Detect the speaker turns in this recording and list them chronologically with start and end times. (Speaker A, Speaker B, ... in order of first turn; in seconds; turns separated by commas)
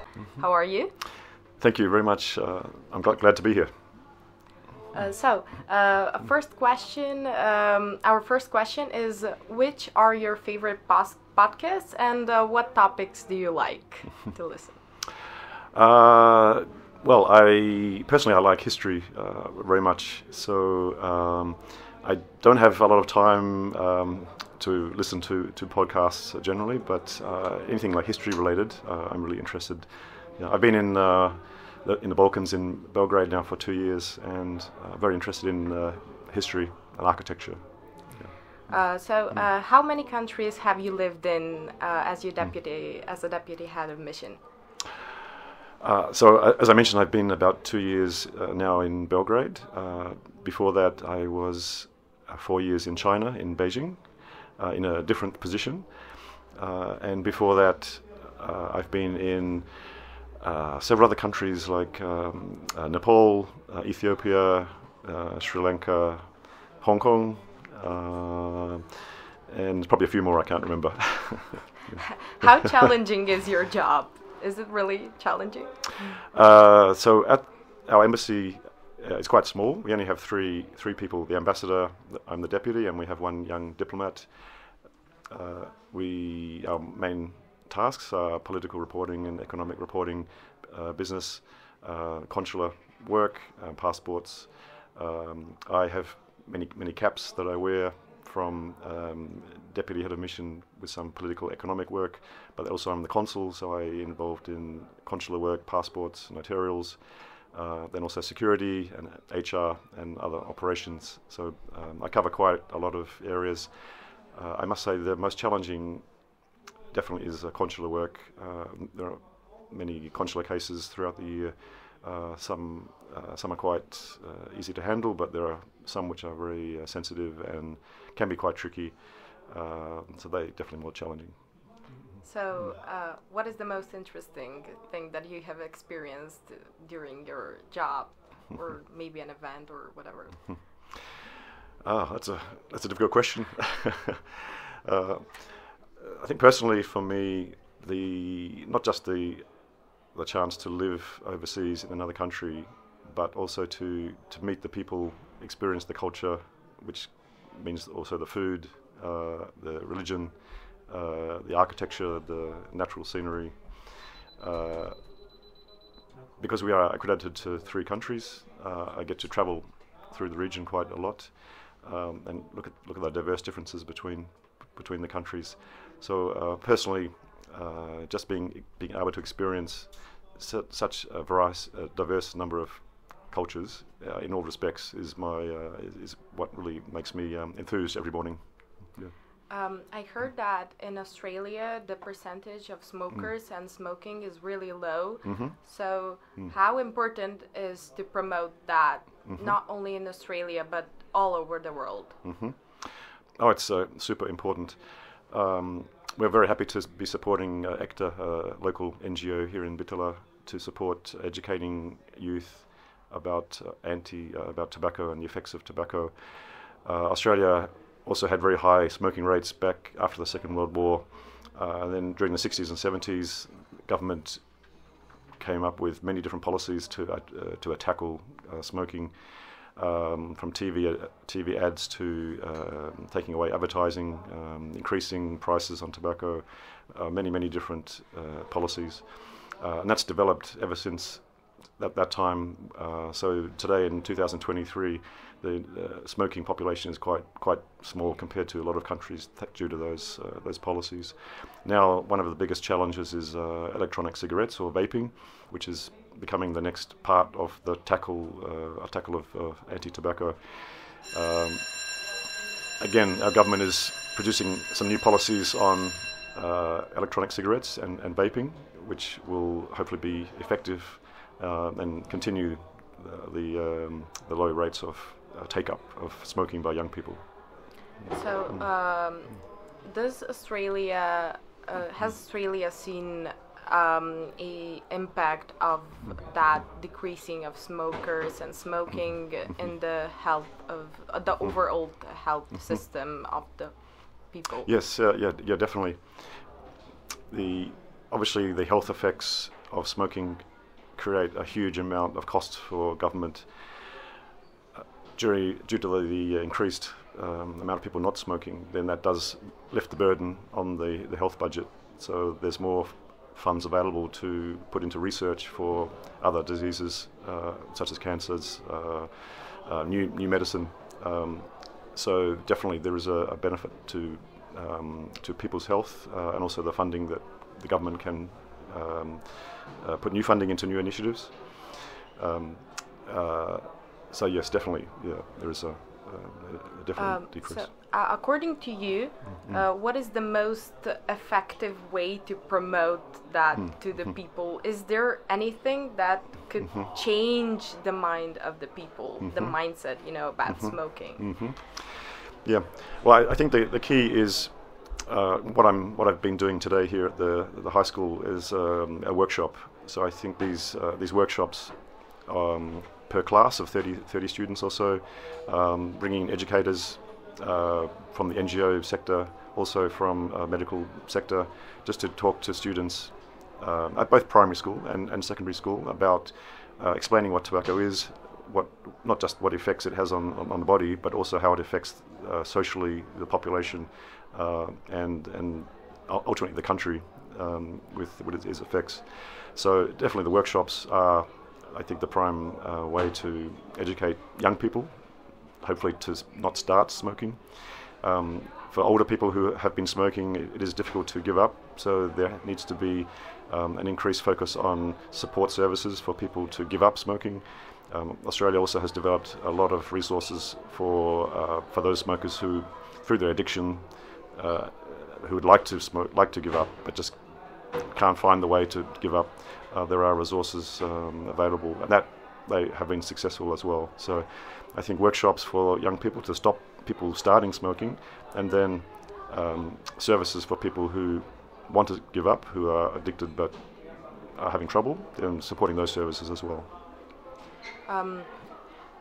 Speaker A: 0.3-1.0, Speaker B: 1.6-4.1, Speaker A: 4.9-14.8, Speaker B: 15.7-38.3, Speaker A: 38.7-44.4, Speaker B: 45.8-68.9, Speaker B: 69.5-72.0, Speaker A: 72.3-76.2, Speaker B: 76.3-116.3, Speaker B: 116.9-131.7, Speaker A: 132.2-140.6, Speaker B: 141.8-165.1, Speaker B: 166.4-189.1, Speaker A: 189.5-202.2, Speaker B: 195.2-195.6, Speaker B: 202.2-224.7, Speaker B: 225.4-262.0, Speaker B: 262.8-278.0, Speaker A: 278.1-294.7, Speaker B: 294.6-296.7, Speaker B: 297.3-304.0, Speaker B: 304.8-337.7, Speaker A: 337.0-351.3, Speaker B: 349.2-350.0, Speaker B: 350.5-436.7, Speaker A: 437.9-438.7